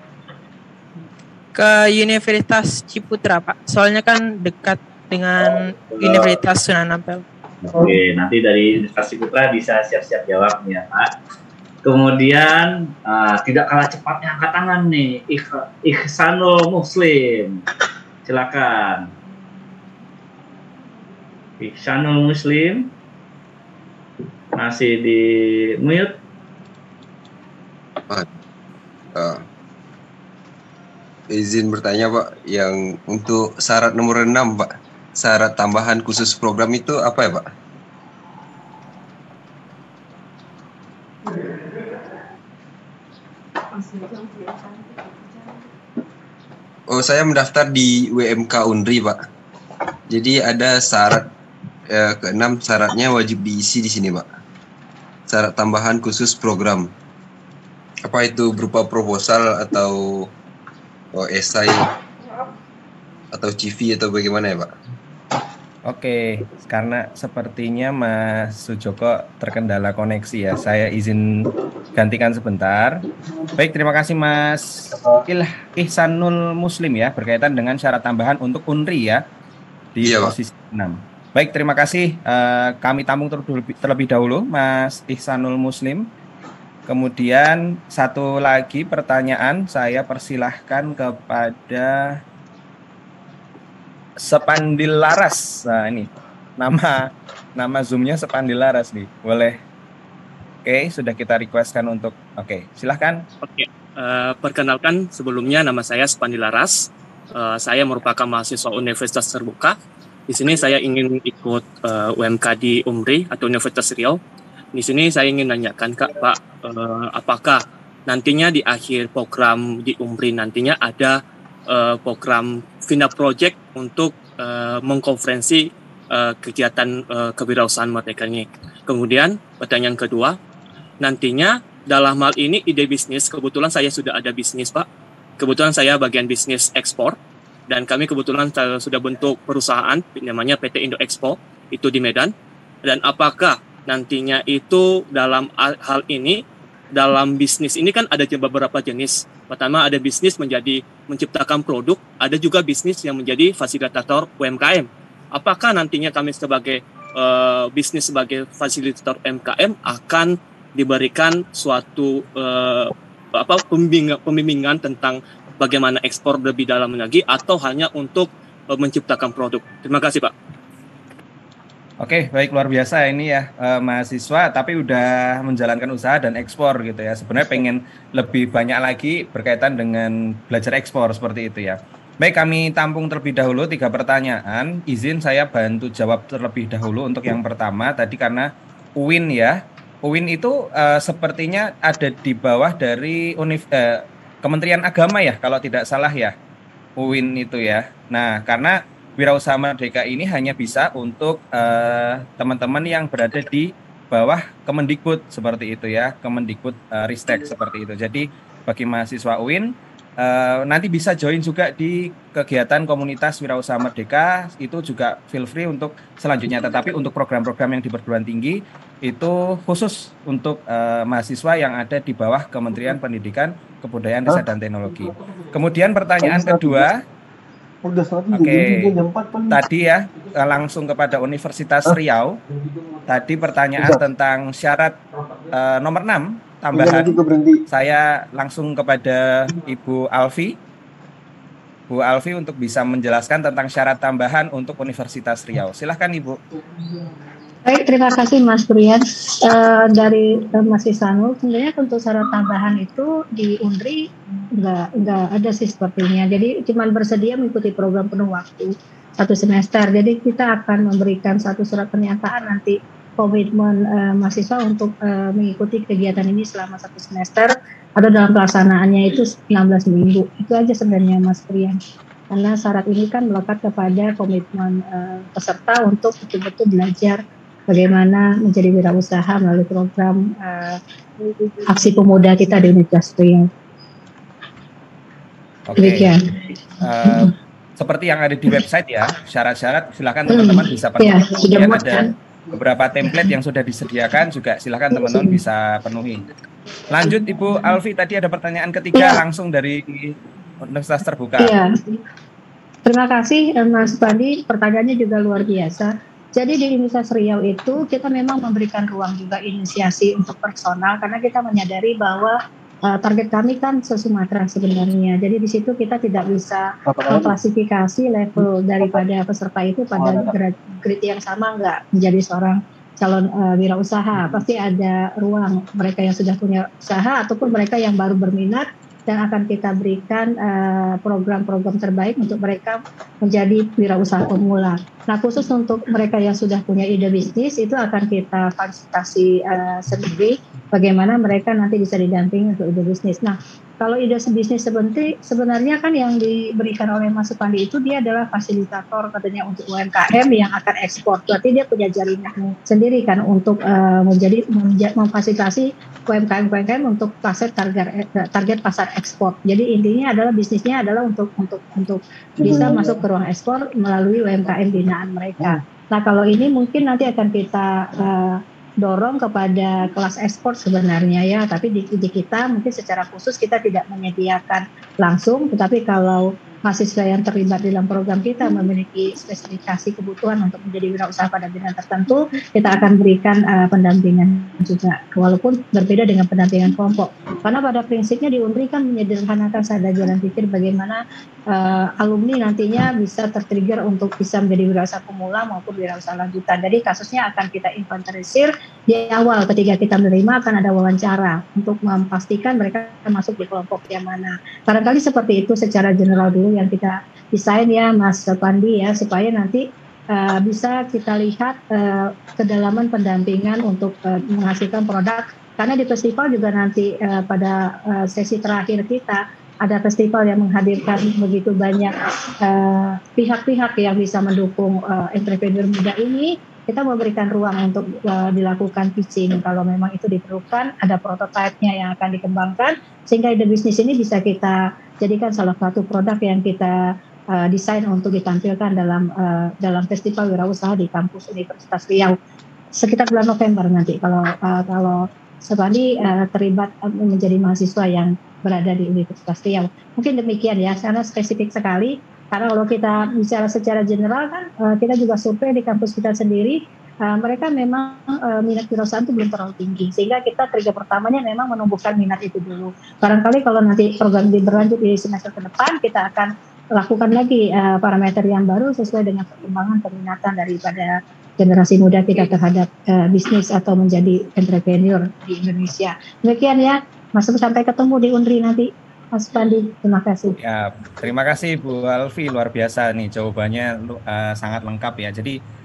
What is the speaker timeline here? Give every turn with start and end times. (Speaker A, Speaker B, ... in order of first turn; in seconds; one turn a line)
Speaker A: 1.5-7.2
Speaker B: 5.9-6.3
Speaker B: 7.6-11.1
Speaker B: 11.8-17.6
Speaker B: 18.3-19.1
Speaker B: 21.6-22.9
Speaker B: 24.6-25.3
Speaker B: 25.8-26.1
Speaker C: 29.1-29.4
Speaker C: 31.3-37.5
Speaker C: 46.9-49.2
Speaker C: 50.1-51.3
Speaker C: 51.9-54.4
Speaker C: 55.3-56.9
Speaker C: 58.1-60.0
Speaker C: 61.1-61.8
Speaker C: 63.3-64.7
Speaker D: 65.9-73.0
Speaker D: 73.6-79.2
Speaker E: 74.9-75.2
Speaker D: 80.0-86.1
Speaker C: 80.0-80.3
Speaker D: 86.9-92.2
Speaker D: 94.2-99.6
Speaker D: 100.6-103.2
Speaker F: 103.4-109.8
Speaker F: 110.3-114.2
Speaker F: 114.7-130.4
Speaker F: 131.0-134.9
Speaker F: 135.4-137.2
Speaker F: 137.7-142.3
Speaker F: 142.8-146.4
Speaker F: 146.9-170.3
Speaker D: 172.0-196.3
Speaker D: 197.0-227.0
Speaker E: 224.3-225.0
Speaker E: 226.2-226.9
Speaker E: 227.8-229.6
Speaker D: 228.3-228.9
Speaker D: 229.5-232.4
Speaker D: 233.1-234.9
Speaker E: 233.8-234.0
Speaker D: 235.5-237.2
Speaker E: 236.7-237.6
Speaker D: 237.7-240.6
Speaker D: 241.9-246.4
Speaker G: 247.7-271.8
Speaker G: 272.3-283.5
Speaker D: 285.7-286.2
Speaker G: 285.8-286.3
Speaker D: 286.8-296.2
Speaker G: 287.0-287.3
Speaker G: 290.3-292.1
Speaker G: 295.0-295.4
Speaker D: 296.9-301.6
Speaker G: 298.9-299.2
Speaker G: 301.4-301.8
Speaker G: 302.9-436.7
Speaker E: 316.9-317.4
Speaker E: 320.0-320.3
Speaker E: 362.4-363.0
Speaker G: 437.4-442.1
Speaker G: 442.8-480.4
Speaker D: 480.4-485.4